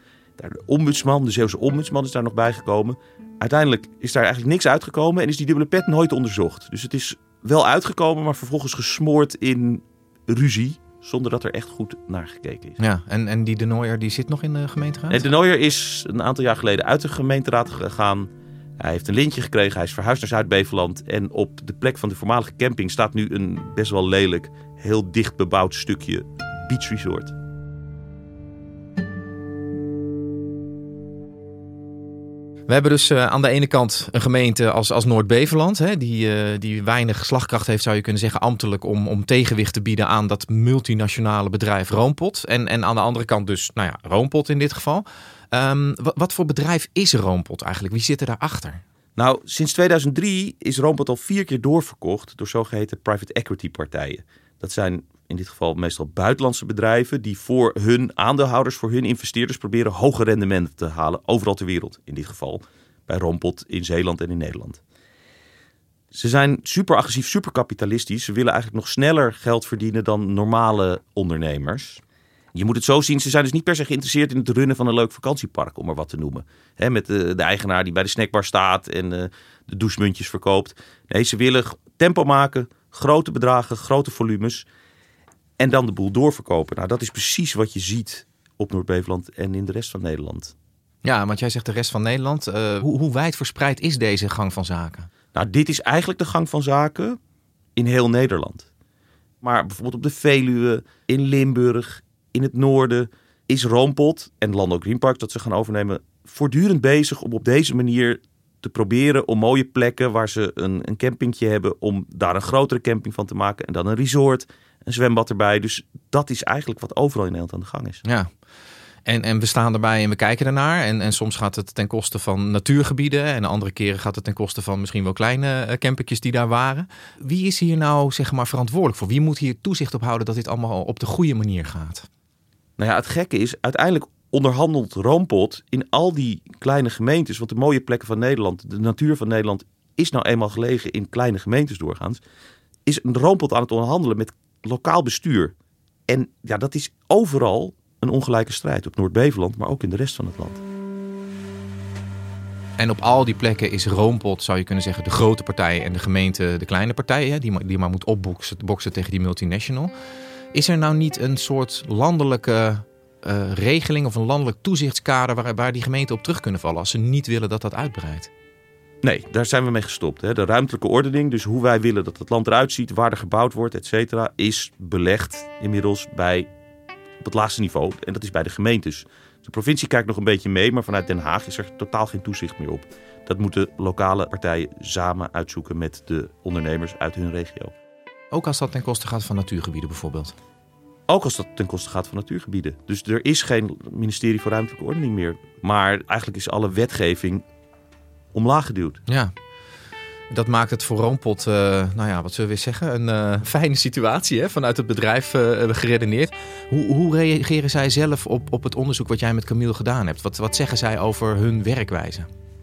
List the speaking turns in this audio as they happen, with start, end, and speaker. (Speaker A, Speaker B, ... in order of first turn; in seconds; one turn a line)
Speaker A: 0.4-12.8
Speaker B: 12.8-15.2
Speaker A: 15.1-27.3
Speaker B: 32.7-48.8
Speaker A: 49.1-64.8
Speaker A: 66.1-72.0
Speaker A: 72.5-84.7
Speaker A: 85.6-90.5
Speaker B: 91.0-95.1
Speaker A: 95.3-97.2
Speaker A: 97.8-98.7
Speaker A: 99.4-118.0
Speaker B: 118.0-118.3
Speaker B: 119.0-132.1
Speaker A: 132.8-142.2
Speaker A: 142.8-145.5
Speaker A: 146.1-150.6
Speaker B: 152.8-159.9
Speaker B: 160.5-168.3
Speaker A: 169.0-176.5
Speaker A: 177.2-187.7
Speaker B: 188.3-190.3
Speaker A: 191.1-197.4
Speaker A: 198.3-199.0
Speaker B: 199.1-199.3
Speaker B: 200.3-212.3